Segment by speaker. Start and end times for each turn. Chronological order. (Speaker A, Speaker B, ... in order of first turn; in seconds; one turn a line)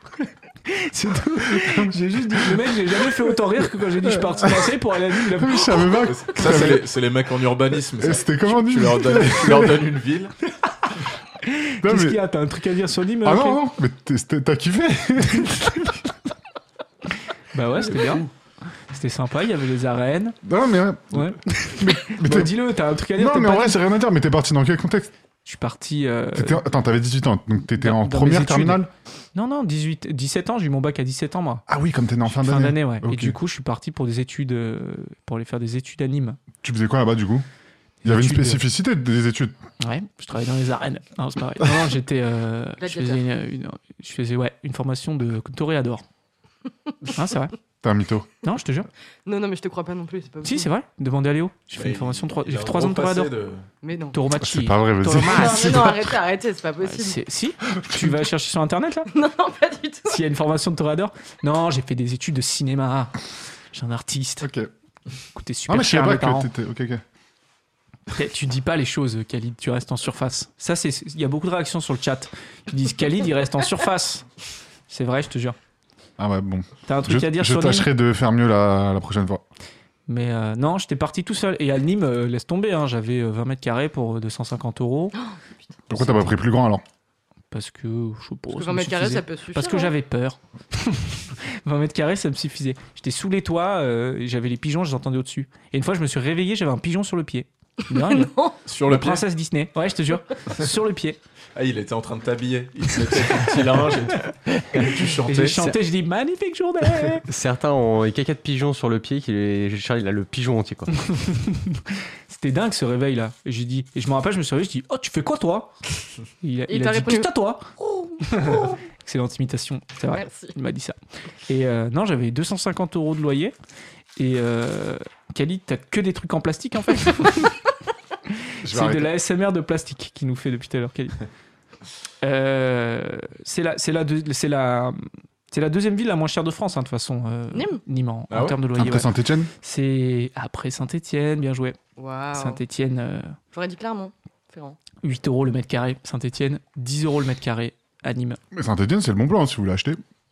Speaker A: 0.7-6.0
Speaker B: 1.5-1.9
Speaker B: 4.0-6.9
Speaker C: 6.0-10.3
Speaker B: 8.0-9.8
Speaker A: 11.4-13.6
Speaker B: 11.8-12.2
Speaker B: 13.2-15.9
Speaker A: 15.4-15.9
Speaker A: 17.5-18.2
Speaker A: 18.9-20.4
Speaker B: 20.4-22.5
Speaker A: 21.1-23.8
Speaker B: 23.1-25.1
Speaker A: 25.4-26.6
Speaker B: 26.3-28.9
Speaker A: 27.7-28.8
Speaker A: 29.3-31.6
Speaker B: 31.7-33.4
Speaker A: 32.3-36.4
Speaker B: 36.6-37.4
Speaker B: 38.0-39.5
Speaker A: 38.0-38.6
Speaker A: 39.8-46.0
Speaker D: 42.8-43.2
Speaker A: 47.1-47.5
Speaker B: 47.8-48.3
Speaker A: 48.4-48.9
Speaker D: 49.2-50.7
Speaker A: 50.4-53.3
Speaker C: 51.8-53.6
Speaker D: 53.8-54.2
Speaker A: 54.1-55.7
Speaker B: 54.4-56.2
Speaker D: 55.1-57.2
Speaker A: 56.8-59.1
Speaker B: 57.8-58.1
Speaker D: 59.1-60.2
Speaker A: 60.1-63.2
Speaker A: 63.7-64.5
Speaker B: 64.4-64.7
Speaker A: 65.3-66.5
Speaker B: 65.7-67.0
Speaker A: 68.1-74.2
Speaker A: 74.9-75.5
Speaker B: 76.2-79.4
Speaker A: 76.9-77.9
Speaker A: 80.1-85.1
Speaker D: 85.1-85.5
Speaker B: 85.9-86.8
Speaker A: 85.9-86.3
Speaker A: 87.5-98.3
Speaker D: 88.5-89.9
Speaker D: 97.9-98.6
Speaker C: 98.7-99.2
Speaker A: 98.8-101.2
Speaker C: 101.5-105.7
Speaker A: 105.2-107.3
Speaker E: 107.2-110.9
Speaker A: 111.0-115.7
Speaker A: 116.4-117.7
Speaker D: 116.7-118.8
Speaker A: 118.2-123.5
Speaker D: 120.1-120.5
Speaker A: 124.2-127.5
Speaker B: 128.6-129.1
Speaker A: 128.6-131.2
Speaker A: 132.2-139.1
Speaker D: 137.5-137.8
Speaker C: 138.3-138.6
Speaker B: 138.7-139.5
Speaker A: 139.6-141.8
Speaker D: 142.0-142.6
Speaker A: 142.3-143.3
Speaker D: 143.5-144.8
Speaker A: 145.0-148.4
Speaker B: 148.5-150.0